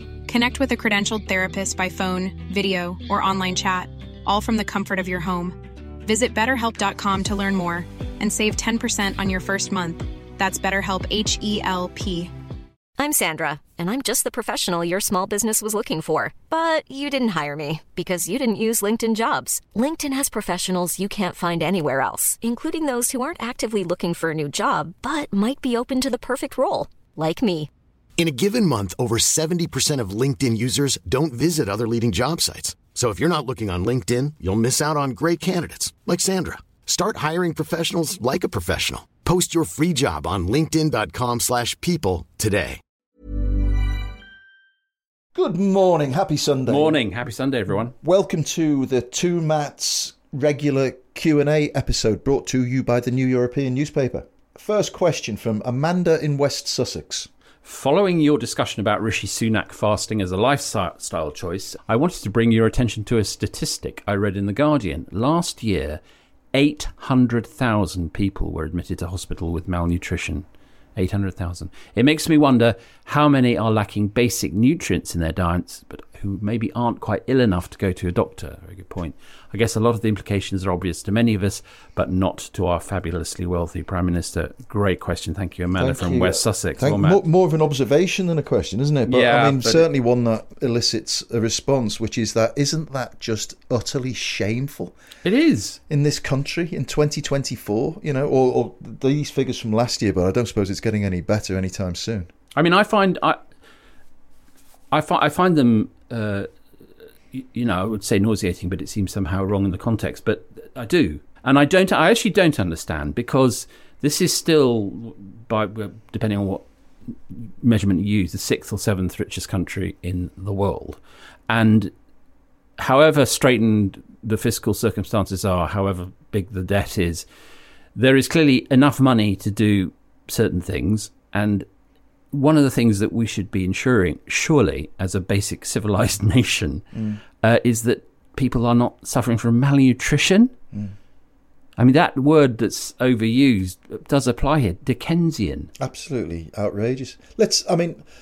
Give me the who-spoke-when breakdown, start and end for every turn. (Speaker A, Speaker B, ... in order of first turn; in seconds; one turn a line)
Speaker A: 0.2-12.3
Speaker B: 13.0-27.7
Speaker C: 28.2-42.8
Speaker D: 45.3-47.0
Speaker E: 46.7-47.9
Speaker D: 48.0-57.3
Speaker E: 57.6-66.0
Speaker E: 66.5-70.4
Speaker E: 71.0-87.2
Speaker D: 85.7-94.9
Speaker E: 89.1-89.8
Speaker E: 95.2-95.8
Speaker D: 95.9-102.3
Speaker E: 102.5-103.4
Speaker E: 104.9-106.5
Speaker E: 107.3-116.6
Speaker E: 117.3-121.9
Speaker E: 122.8-127.2
Speaker E: 127.9-131.7
Speaker E: 132.3-136.8
Speaker D: 136.9-137.2
Speaker E: 137.4-140.5
Speaker E: 141.8-145.7
Speaker D: 145.8-148.0